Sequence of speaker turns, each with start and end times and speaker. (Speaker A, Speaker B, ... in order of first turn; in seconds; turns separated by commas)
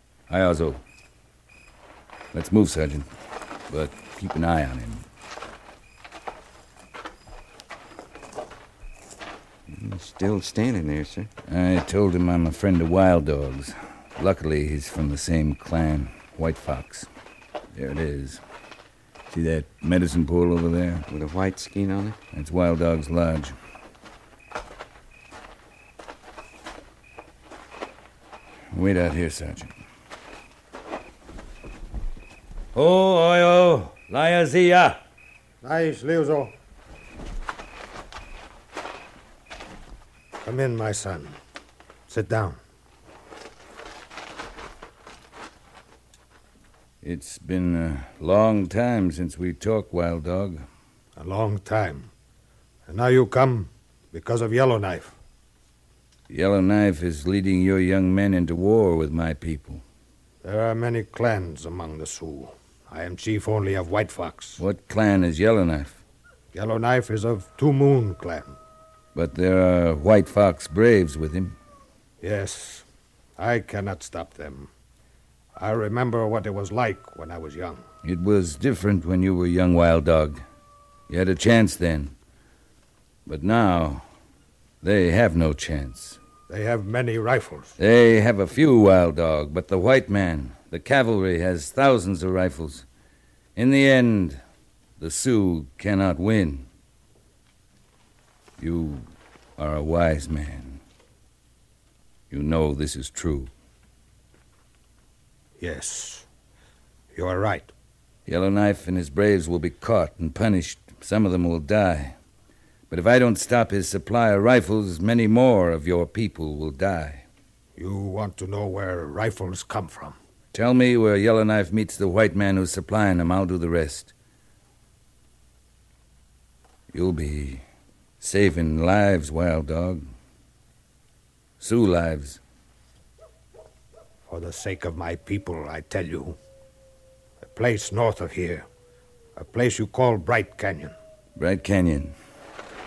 Speaker A: 0.3-0.8, Speaker A: 2.3-3.1, Speaker A: 3.7-5.0, Speaker B: 9.7-11.3, Speaker A: 11.5-17.1, Speaker A: 17.7-18.4, Speaker A: 19.3-21.1, Speaker B: 21.1-22.2, Speaker A: 22.3-23.5, Speaker A: 28.7-29.7, Speaker A: 32.7-35.0, Speaker C: 35.6-36.5, Speaker C: 40.4-41.4, Speaker C: 42.1-42.6, Speaker A: 47.0-50.6, Speaker C: 51.2-52.1, Speaker C: 52.9-55.1, Speaker A: 56.3-59.8, Speaker C: 60.4-64.6, Speaker A: 64.6-66.0, Speaker C: 66.5-68.5, Speaker A: 69.1-71.5, Speaker C: 72.2-72.8, Speaker C: 73.4-74.7, Speaker C: 75.6-77.8, Speaker A: 78.0-80.4, Speaker A: 81.1-82.1, Speaker A: 83.2-84.0, Speaker A: 84.8-86.2, Speaker C: 86.5-87.7, Speaker A: 87.8-92.8, Speaker A: 93.5-94.4, Speaker A: 95.0-96.7, Speaker A: 98.6-100.8, Speaker A: 102.3-103.5, Speaker C: 105.6-106.2, Speaker C: 107.1-107.7, Speaker A: 108.3-112.2, Speaker A: 112.9-117.2, Speaker C: 117.8-120.2, Speaker A: 120.5-124.1, Speaker A: 126.9-127.6, Speaker A: 128.2-130.0, Speaker A: 131.6-132.4, Speaker C: 134.3-136.3, Speaker C: 137.4-138.7, Speaker C: 139.3-140.9, Speaker A: 141.4-142.1